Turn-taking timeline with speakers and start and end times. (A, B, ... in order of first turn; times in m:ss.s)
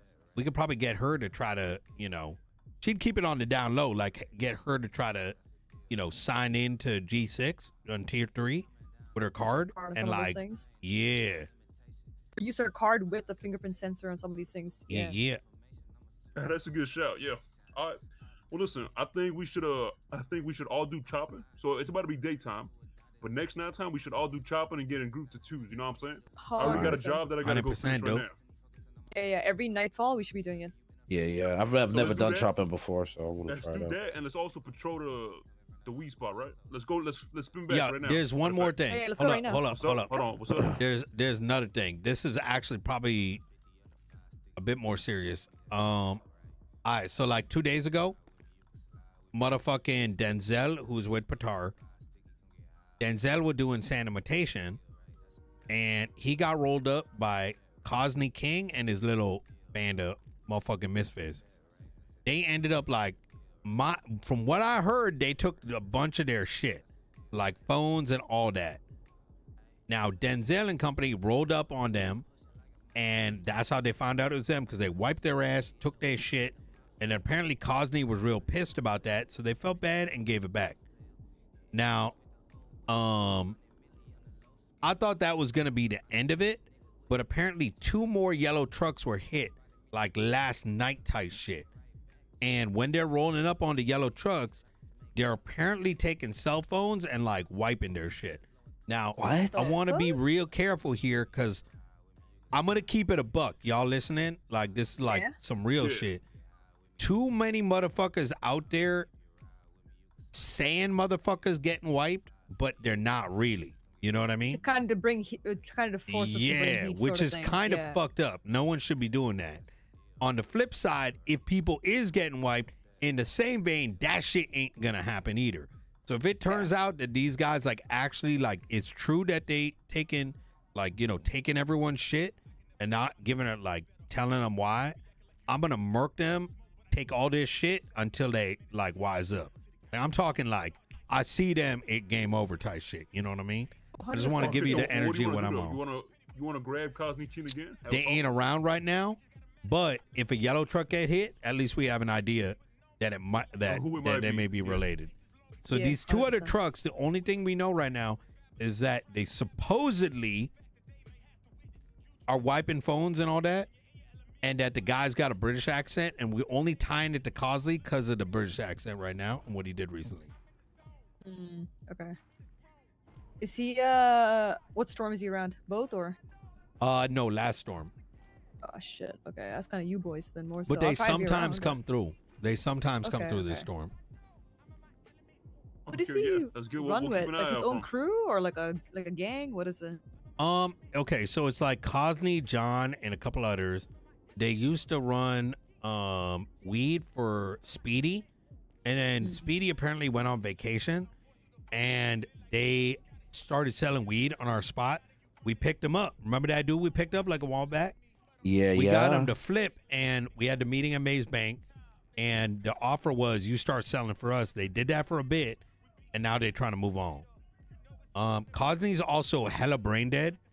0:00.4-0:05.4 A
0:05.9-0:11.5 A
0:09.7-0:10.7 B
0:12.4-0:15.2 B
0:14.9-0:15.4 A
0:16.4-0:18.0 C
0:18.5-0:28.4 C
0:26.4-0:27.2 B
0:26.6-0:27.0 D
0:27.4-0:28.3 A
0:29.1-0:30.7 B
0:31.1-0:34.0 D
0:31.8-0:32.5 C
0:33.5-0:38.8 C
0:37.7-0:43.4 A
0:38.9-0:39.6 B
0:39.7-0:40.7 C
0:44.6-0:46.2 A
0:46.8-0:48.2 A
0:49.3-0:51.8 A
0:53.0-0:54.8 A
0:55.7-1:01.4 A
1:02.2-1:08.8 A
1:09.9-1:12.3 A
1:13.0-1:20.8 A
1:21.7-1:22.2 A
1:22.9-1:23.6 A
1:24.8-1:31.7 A
1:32.4-1:34.6 A
1:35.2-1:41.6 A
1:39.2-1:39.7 D
1:39.5-1:40.2 B
1:42.5-1:46.2 A
1:45.1-1:45.3 B
1:45.8-1:46.1 C
1:47.0-1:49.1 A
1:50.3-1:54.6 A
1:54.5-1:58.0 B
1:56.1-1:59.7 A
2:00.2-2:15.0 A
2:06.5-2:06.7 B
2:15.5-2:25.8 A
2:24.0-2:25.0 B
2:24.4-2:28.3 C
2:27.9-2:35.1 A
2:33.7-2:34.8 C
2:35.6-2:40.5 A
2:35.7-2:36.6 B
2:42.3-2:43.7 A
2:44.4-2:50.3 A
2:51.2-2:52.2 B
2:53.4-2:56.2 B
2:56.8-2:57.9 A
2:58.6-3:01.8 B
3:00.7-3:03.9 A
3:03.0-3:03.7 B
3:05.9-3:07.9 C
3:05.9-3:10.0 B
3:10.4-3:18.3 A
3:18.8-3:21.1 A
3:19.2-3:19.5 B
3:21.7-3:28.0 A
3:28.4-3:29.3 D
3:28.8-3:31.6 A
3:32.2-3:35.6 A
3:36.1-3:37.3 A
3:38.2-3:40.4 A